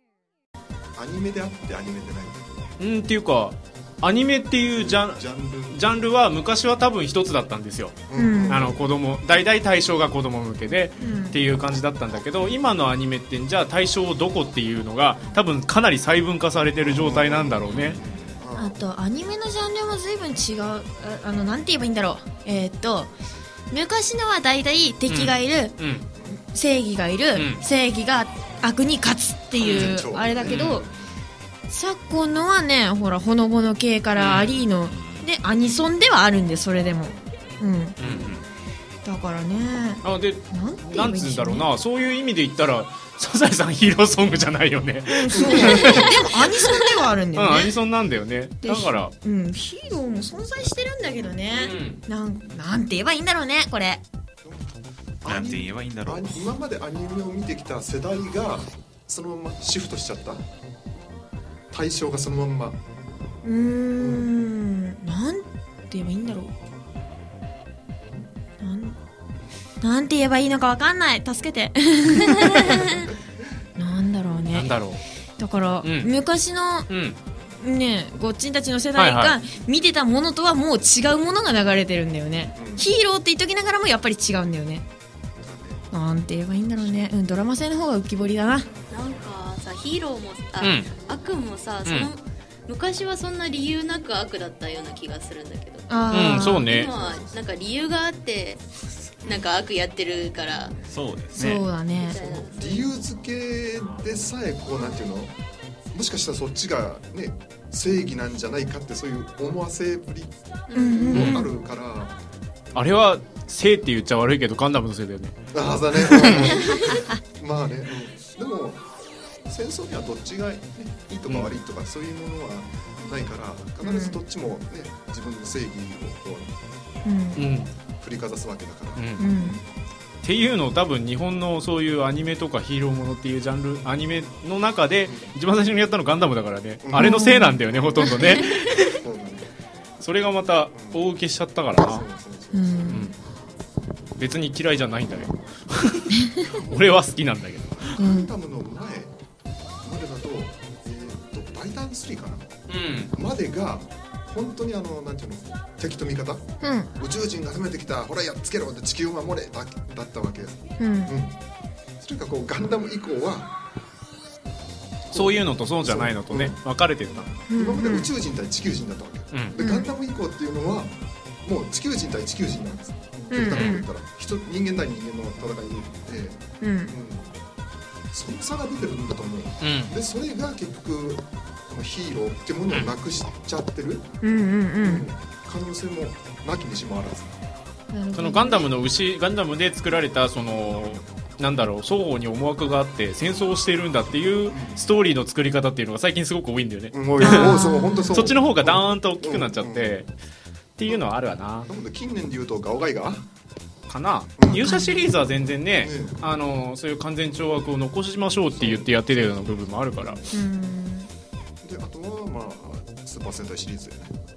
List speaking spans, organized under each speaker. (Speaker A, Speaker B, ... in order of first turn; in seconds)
Speaker A: 0.9-2.7, 4.8-5.8, 8.1-8.8, 11.0-11.2, 15.2-15.4, 16.8-18.8, 26.1-26.4, 29.6-31.2, 37.0-37.5, 45.3-46.2, 51.0-51.4, 54.4-60.5, 61.7-62.8, 64.0-64.3, 72.6-73.6, 82.5-82.9, 85.4-85.9, 86.8-87.1, 96.7-97.4, 102.0-105.3, 105.9-110.3, 111.0-112.2, 115.5-118.8, 119.4-126.5, 127.9-129.6, 135.1-135.3, 136.8-139.5, 140.7-141.0, 141.8-143.1, 146.5-146.9, 147.8-149.2, 149.8-152.6, 153.1-161.4, 162.0-163.5, 165.1-177.3, 178.1-184.1, 184.8-187.4, 190.6-191.0, 194.5-194.9, 196.9-200.0, 201.7-203.3, 204.4-204.7, 205.8-206.2, 208.5-210.4, 211.6-214.2
Speaker B: 2.8-18.0, 25.1-26.1, 27.3-27.6, 29.6-30.8, 34.1-34.6, 38.0-38.3, 40.0-49.1, 51.5-52.0, 74.5-75.0, 75.8-76.1, 76.9-77.2, 79.0-79.4, 90.6-90.9, 96.1-96.9, 111.1-111.4, 112.7-115.4, 115.9-116.5, 121.3-121.5, 127.3-127.7, 128.9-129.3, 130.2-139.0, 140.0-142.0, 142.9-143.2, 144.2-148.0, 152.7-153.1, 165.1-167.3, 173.4-173.8, 179.6-179.9, 188.1-200.1, 200.8-201.7, 203.9-210.2
Speaker C: 8.1-8.7, 11.0-11.3, 18.6-23.1, 23.7-25.8, 26.4-30.9, 31.7-38.2, 39.0-41.7, 45.1-47.7, 48.6-54.0, 63.4-66.5, 68.6-69.0, 69.8-73.0, 73.8-74.7, 75.4-76.9, 77.6-84.8, 85.9-88.7, 95.9-96.7, 101.3-102.2, 110.7-111.5, 116.4-117.1, 123.8-124.2, 127.0-127.5, 129.2-129.6, 136.9-137.6, 142.5-143.1, 148.0-148.3, 156.6-156.9, 160.8-161.1, 167.5-168.1, 169.6-169.9, 173.3-173.8, 176.6-176.9, 184.2-185.1, 187.9-188.7, 197.2-198.3, 204.4-205.1, 210.3-211.1
Speaker D: 34.8-35.3, 38.0-38.4, 55.2-56.5, 100.9-101.7
Speaker E: 88.9-100.8, 102.0-102.9, 110.7-111.2